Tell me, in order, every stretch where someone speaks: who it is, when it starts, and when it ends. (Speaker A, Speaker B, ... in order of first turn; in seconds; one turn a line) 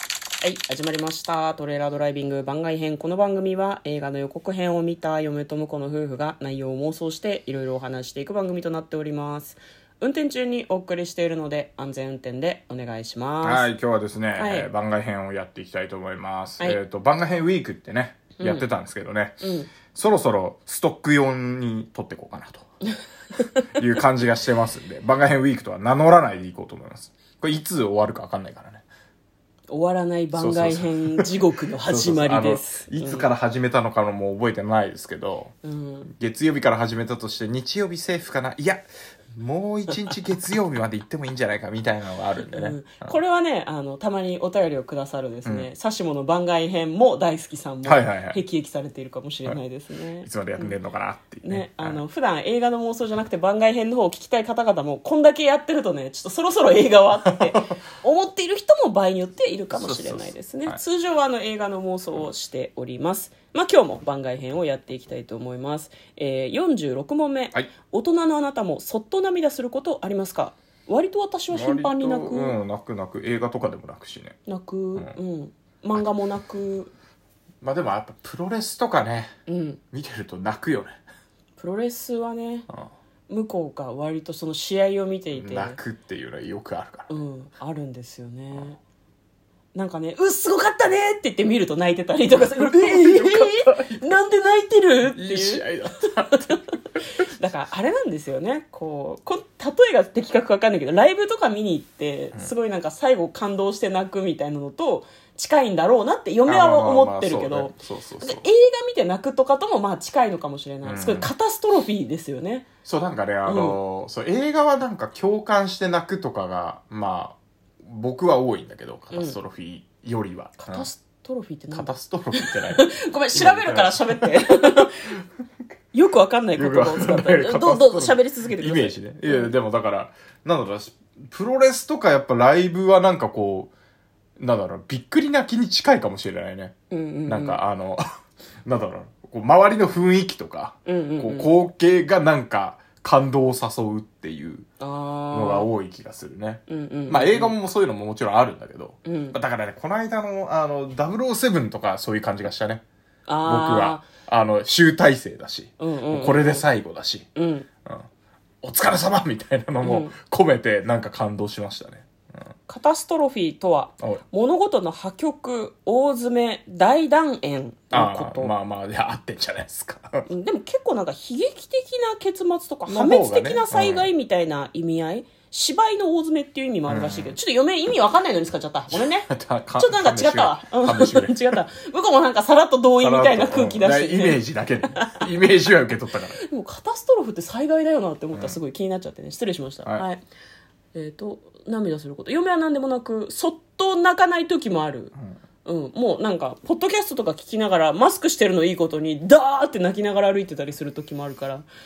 Speaker A: 0.4-13.7
Speaker B: 13.4-22.6
Speaker A: 14.3-14.7
Speaker A: 18.4-18.7
Speaker A: 19.4-19.7
Speaker A: 23.4-23.8
Speaker B: 23.7-28.8
Speaker A: 29.7-33.3
Speaker B: 30.3-31.3
Speaker B: 31.9-43.2
Speaker A: 35.6-36.1
Speaker A: 42.5-50.7
Speaker B: 47.8-48.4
Speaker B: 50.2-52.0
Speaker A: 51.4-72.6
Speaker B: 59.7-60.8
Speaker B: 71.5-74.4
Speaker A: 74.5-76.9
Speaker B: 77.6-79.3
Speaker A: 79.5-79.8
Speaker B: 79.9-81.0
Speaker A: 81.6-82.7
Speaker A: 83.3-85.8
Speaker B: 85.3-87.1
Speaker A: 87.1-88.8
Speaker A: 89.7-95.7
Speaker B: 92.3-94.1
Speaker B: 95.1-96.6
Speaker A: 96.3-112.7
Speaker B: 106.5-108.4
Speaker B: 110.8-111.3
Speaker B: 112.8-120.9
Speaker A: 113.5-113.8
Speaker A: 119.1-119.4
Speaker A: 120.6-125.1
Speaker B: 121.7-125.1
Speaker A: 125.9-129.5
Speaker B: 126.5-133.7
Speaker B: 134.4-136.7
Speaker A: 136.9-137.6
Speaker B: 137.2-138.1
Speaker B: 138.6-144.7
Speaker A: 140.8-141.5
Speaker A: 144.8-145.7
Speaker B: 145.3-152.8
Speaker A: 146.7-147.5
Speaker A: 149.0-149.4
Speaker A: 153.3-154.1
Speaker B: 153.4-157.3
Speaker A: 155.8-156.7
Speaker A: 157.3-157.7
Speaker B: 158.6-162.5
Speaker A: 159.8-160.1
Speaker A: 162.7-168.5
Speaker B: 167.9-170.3
Speaker A: 170.3-184.4
Speaker B: 172.8-174.1
Speaker B: 176.8-177.4
Speaker B: 178.9-181.6
Speaker B: 183.0-186.4
Speaker A: 184.9-185.3
Speaker A: 186.4-190.2
Speaker B: 188.3-188.6
Speaker A: 190.9-195.1
Speaker A: 195.6-201.7